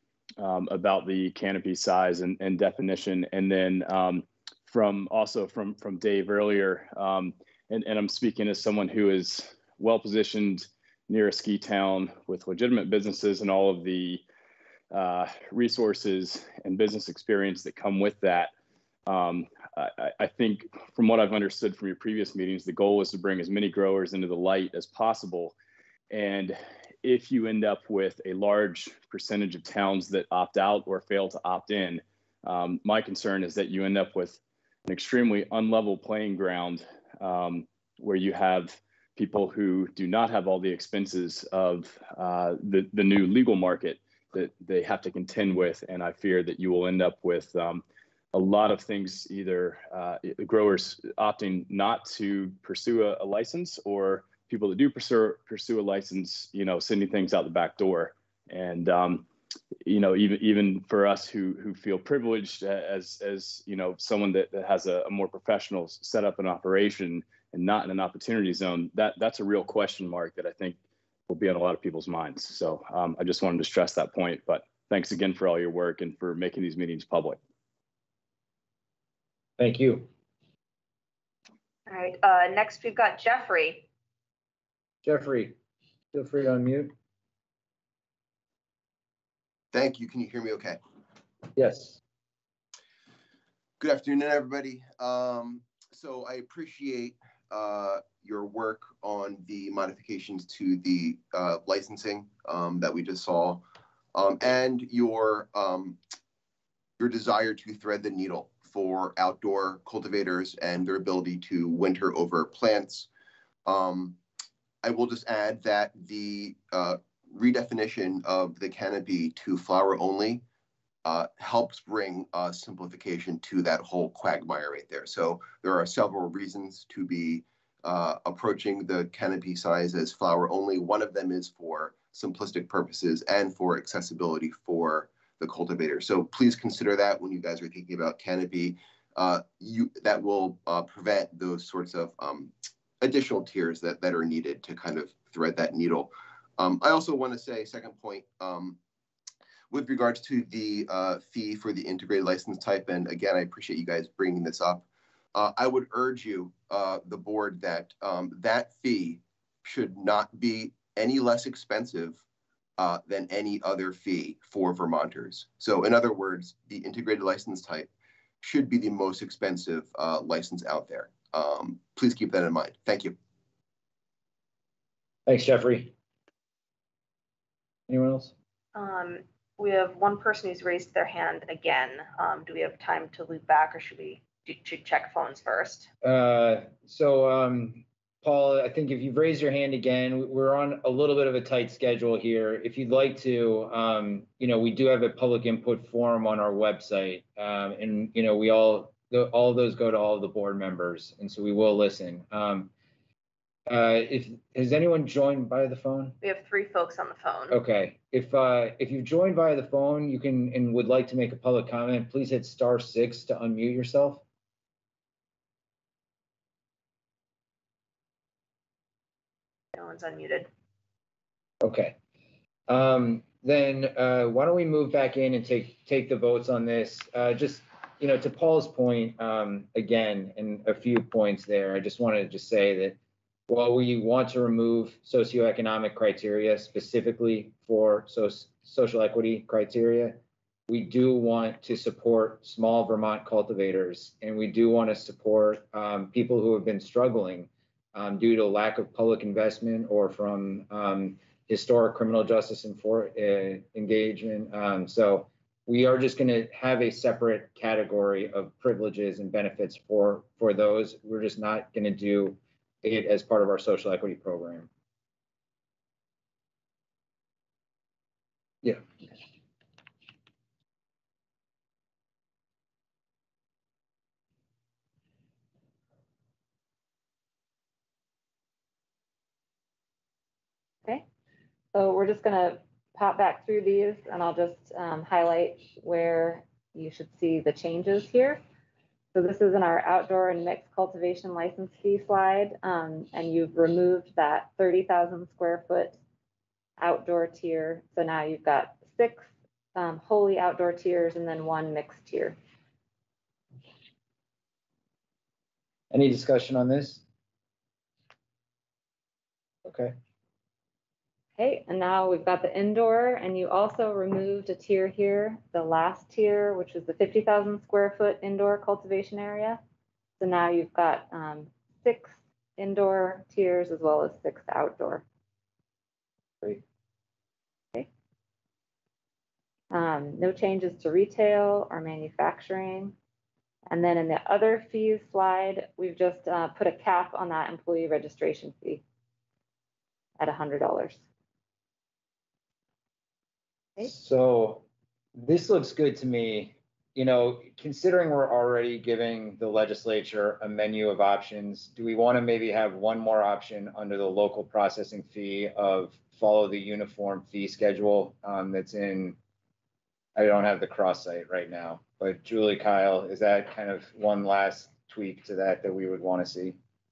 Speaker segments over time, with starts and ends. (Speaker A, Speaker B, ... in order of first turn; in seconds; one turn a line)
Speaker A: 0.4-14.2
Speaker A: 14.9-18.5
Speaker A: 19.1-25.5
Speaker A: 26.1-59.2
Speaker A: 59.8-77.4
Speaker B: 79.6-80.1
Speaker C: 81.9-83.8
Speaker B: 85.0-85.6
Speaker B: 86.1-86.9
Speaker D: 89.7-90.8
Speaker B: 91.5-92.0
Speaker D: 93.8-103.6
Speaker D: 104.1-106.0
Speaker D: 107.0-113.1
Speaker D: 113.6-114.2
Speaker D: 114.8-120.4
Speaker D: 121.0-148.8
Speaker D: 149.7-162.2
Speaker D: 162.8-173.2
Speaker B: 175.2-175.9
Speaker B: 177.9-178.3
Speaker C: 178.7-185.9
Speaker B: 186.0-202.7
Speaker B: 203.7-206.2
Speaker C: 206.2-207.6
Speaker B: 207.5-214.2
Speaker C: 219.7-220.5
Speaker B: 221.6-221.9
Speaker B: 222.7-264.7
Speaker E: 281.7-288.4
Speaker E: 289.1-296.0
Speaker E: 296.8-302.4
Speaker B: 305.9-307.0
Speaker B: 309.6-309.9
Speaker E: 311.4-319.6
Speaker E: 320.2-325.0
Speaker E: 329.7-332.9
Speaker E: 333.7-338.8
Speaker E: 340.2-341.0
Speaker B: 343.8-344.6
Speaker B: 345.1-359.2
Speaker B: 360.1-366.6